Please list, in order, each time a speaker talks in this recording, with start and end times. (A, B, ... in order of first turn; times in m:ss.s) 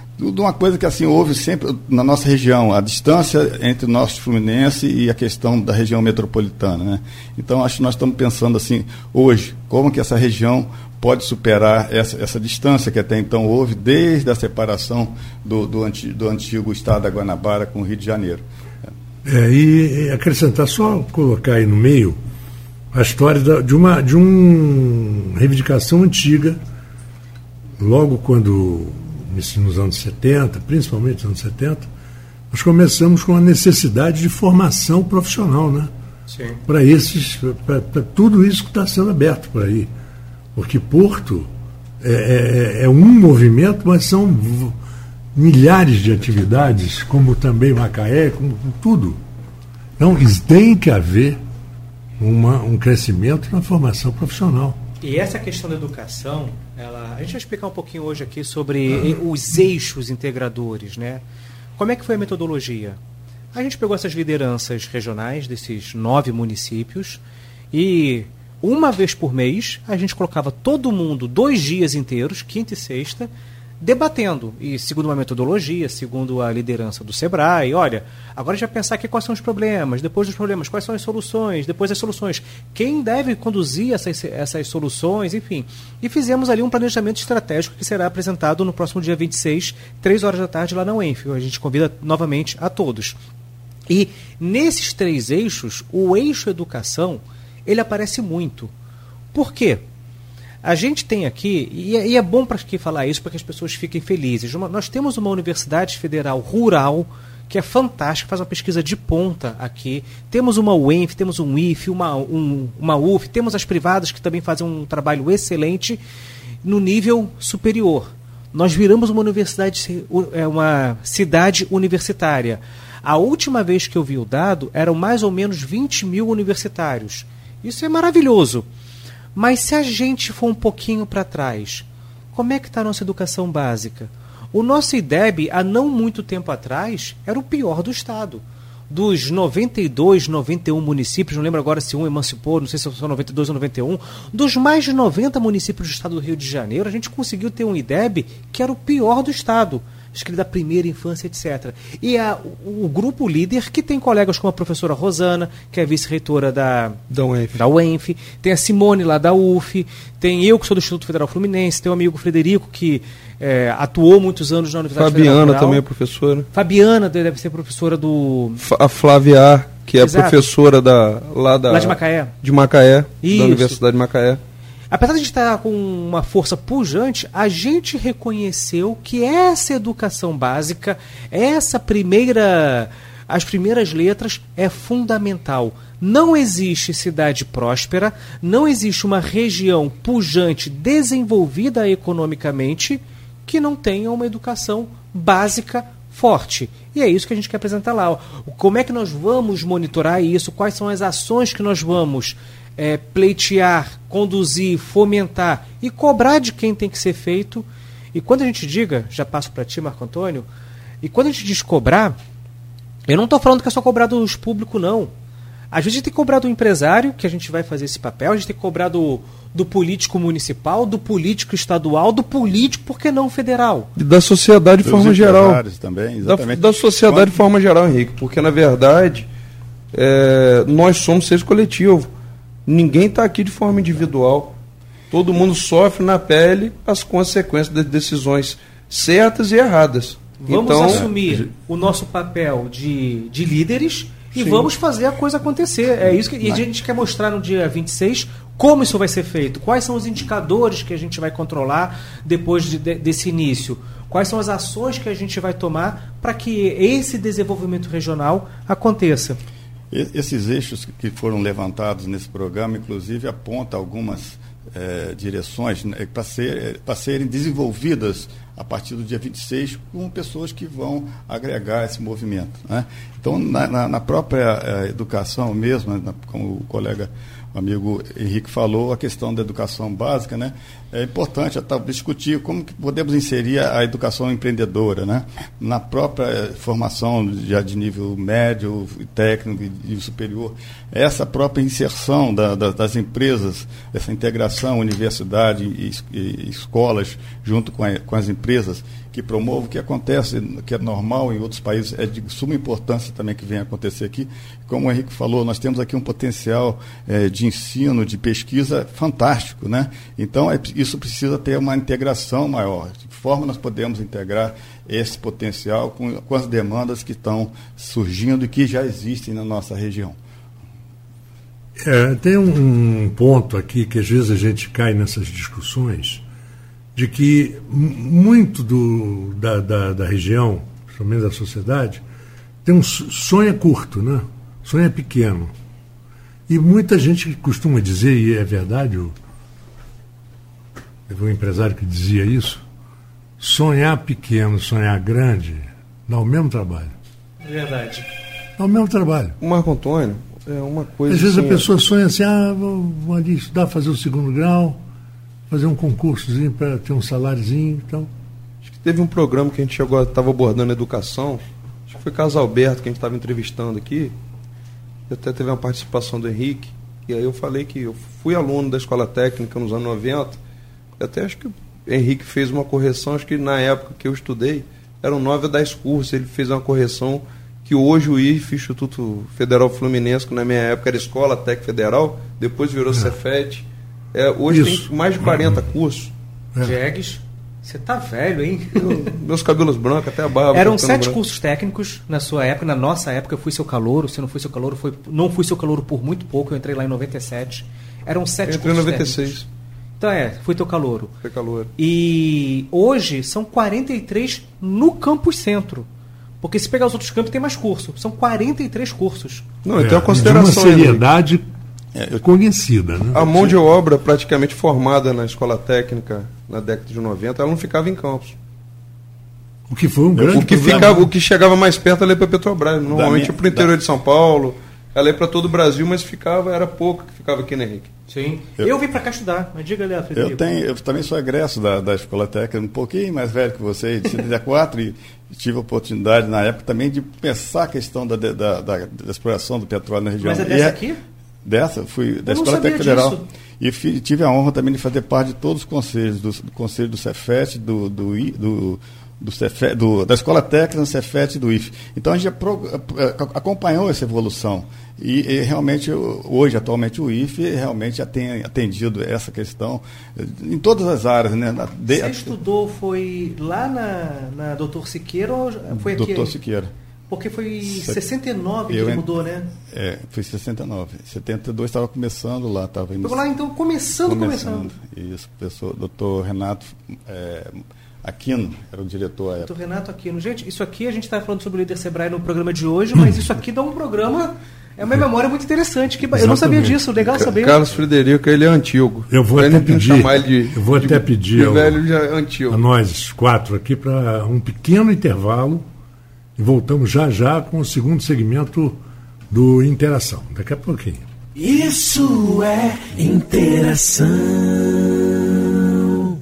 0:00.2-0:18.9 A
0:19.2-0:22.2 B
0:22.9-0:26.6 B
0:27.8-0:31.9 B
0:32.5-0:35.9 B
0:36.3-0:36.6 C
0:36.6-0:39.9 B
0:40.6-0:41.5 B
0:42.0-0:44.8 B
0:45.4-0:49.2 B
0:50.0-0:51.4 B
0:52.2-0:54.8 B
0:55.0-1:01.2 C
1:01.8-1:03.0 C
1:03.5-1:07.2 C
1:07.7-1:13.3 C
1:13.8-1:33.2 C
1:33.9-1:38.7 C
1:39.3-1:39.8 C
1:40.6-1:56.0 C
1:56.6-2:08.7 C
2:09.4-2:37.0 C
2:37.1-2:37.6 D
2:37.5-2:45.8 C
2:45.0-2:46.5 D
2:46.5-2:48.6 C
2:48.6-2:54.4 D
2:50.0-2:50.4 C
2:51.7-2:52.3 C
2:53.2-2:53.8 C
2:54.9-3:30.5 C
3:31.0-3:32.2 C
3:33.1-3:35.1 C
3:35.7-3:43.9 C
3:44.0-3:45.6 D
3:44.8-3:47.4 A
3:46.2-3:49.3 D
3:49.9-3:52.1 D
3:52.7-3:54.6 D
3:55.1-4:01.1 D
4:00.4-4:19.4 C
4:00.9-4:01.5 A
4:19.9-5:20.2 A
5:21.8-5:26.2 B
5:27.0-5:32.0 B
5:32.6-5:35.5 B
5:36.5-5:39.2 B
5:41.1-5:42.6 B
5:43.4-5:46.9 B
5:47.4-5:48.1 C
5:48.6-5:49.4 B
5:49.4-5:51.7 D
5:51.1-5:54.8 B
5:55.5-5:58.1 B
5:58.6-6:04.1 D
6:05.1-6:10.4 D
6:11.0-6:26.1 D
6:24.5-6:25.6 B
6:26.6-6:29.2 C
6:28.8-6:31.2 D
6:30.5-6:39.4 C
6:38.5-6:39.5 D
6:40.0-6:41.2 C
6:41.2-6:41.7 D
6:41.8-6:45.9 C
6:46.4-6:49.5 C
6:49.6-6:51.0 D
6:49.8-6:51.5 B
6:52.0-6:52.2 A
6:52.2-6:53.2 B
6:53.1-6:58.4 D
6:53.3-6:53.5 A
6:59.7-7:01.1 B
7:00.1-7:00.8 A
7:00.3-7:07.9 D
7:02.9-7:03.7 A
7:08.1-7:10.4 C
7:10.1-7:20.8 A
7:20.2-7:21.0 C
7:21.4-7:42.4 A
7:22.3-7:23.3 C
7:41.9-7:46.4 C
7:45.7-7:46.7 A
7:47.1-7:49.5 C
7:47.6-7:48.0 A
7:48.7-7:53.2 A
7:53.0-7:54.7 C
7:54.0-7:59.5 A
7:59.4-8:07.6 C
8:06.1-8:06.8 B
8:07.2-8:12.6 D
8:09.1-8:11.8 B
8:12.5-8:15.6 B
8:16.4-8:18.8 B
8:19.3-8:21.0 B
8:21.4-8:25.9 E